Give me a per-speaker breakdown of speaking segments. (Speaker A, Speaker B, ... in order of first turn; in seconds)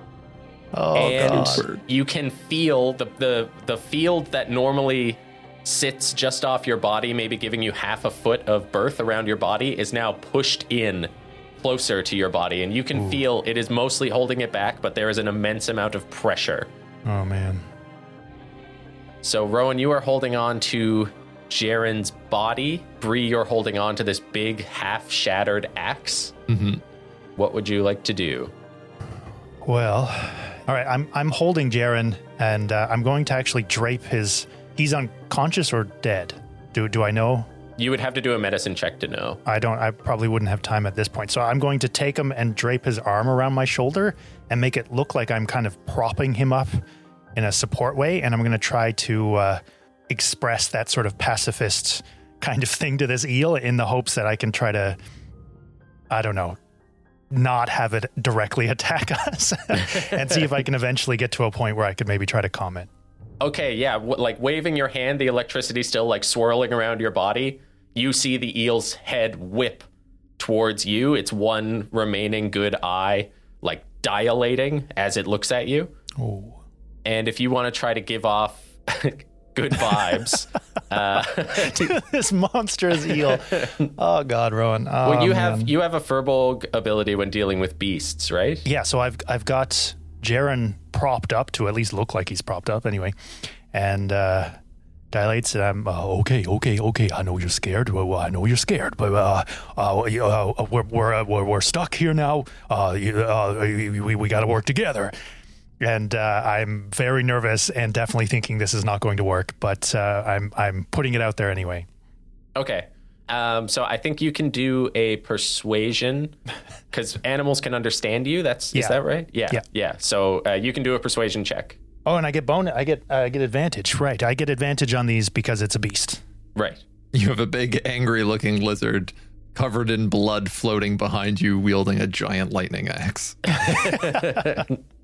Speaker A: 0.7-1.7, 12.9-13.2, 17.0-17.6, 29.6-37.5, 39.4-46.8, 47.4-55.0, 56.1-56.6, 57.3-62.9, 76.2-76.6, 81.5-85.7, 88.6-93.1, 93.7-94.6, 95.1-105.1, 105.8-111.9, 118.7-119.6, 122.0-126.2, 133.8-134.6
Speaker B: 0.9-16.7, 19.2-26.3, 27.4-28.5, 37.8-39.4, 63.4-69.8, 70.4-75.9, 77.0-82.0, 83.1-83.8, 85.0-88.6, 112.5-116.3, 116.9-121.8, 126.5-126.8, 133.8-134.6
Speaker C: 1.0-1.8, 26.5-26.8, 127.1-133.4